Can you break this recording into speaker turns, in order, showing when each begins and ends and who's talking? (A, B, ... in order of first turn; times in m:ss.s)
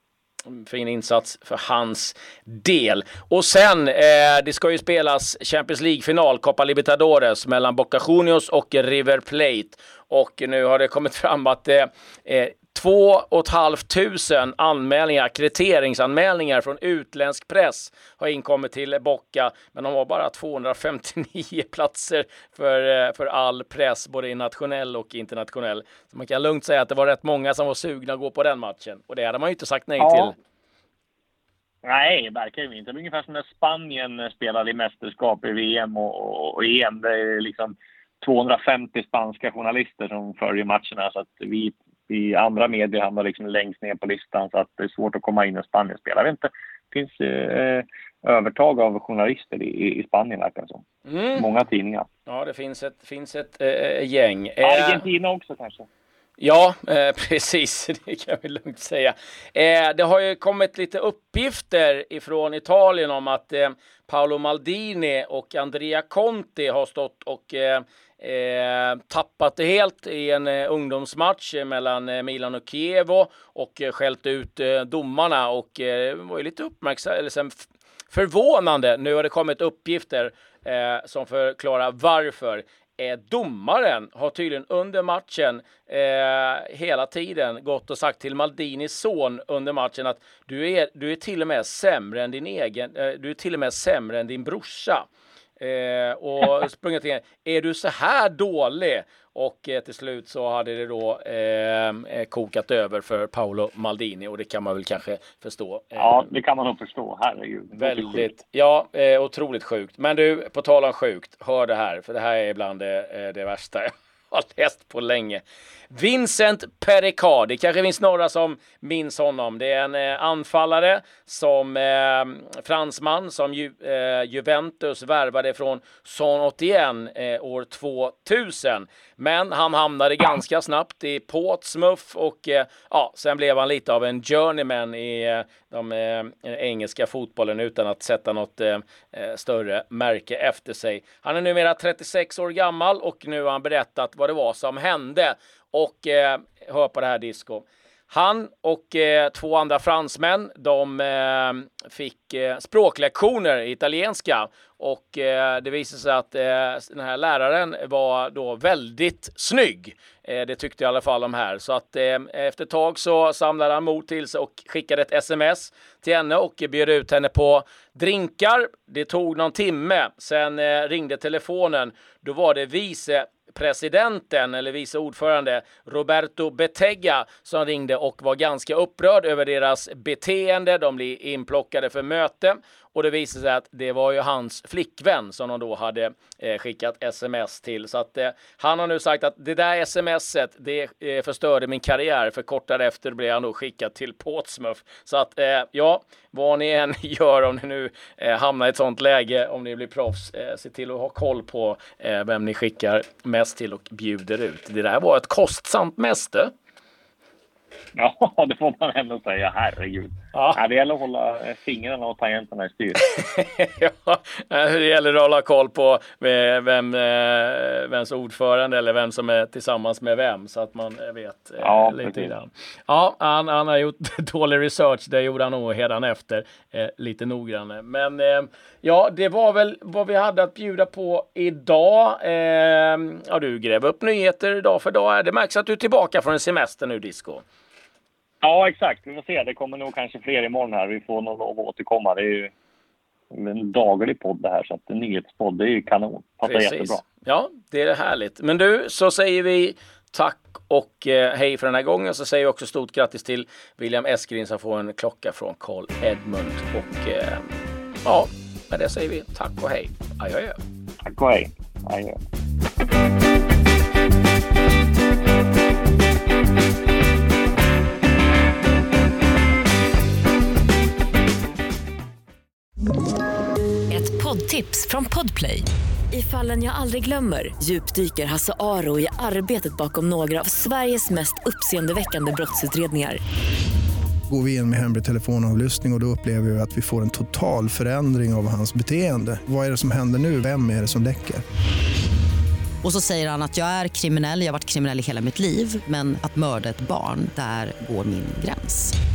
0:00.5-0:30.3 A
0:30.0-0:30.3 B
0:31.8-0:50.8 B
0:51.0-0:51.4 A
0:51.3-0:52.0 B
0:52.3-0:55.0 A
0:54.6-0:55.8 B
0:56.4-1:35.1 A
1:35.6-1:46.3 A
1:46.0-1:48.3 B
1:47.8-3:26.5 A
3:28.0-3:33.0 B
3:30.3-3:30.6 A
3:33.0-3:57.4 A
3:41.6-3:42.3 B
3:58.4-4:02.5 B
4:03.3-4:07.0 B
4:06.4-4:17.4 A
4:18.0-4:20.6 A
4:21.1-4:22.2 B
4:33.9-4:43.2 C
4:44.3-4:51.4 D
4:52.8-4:58.8 E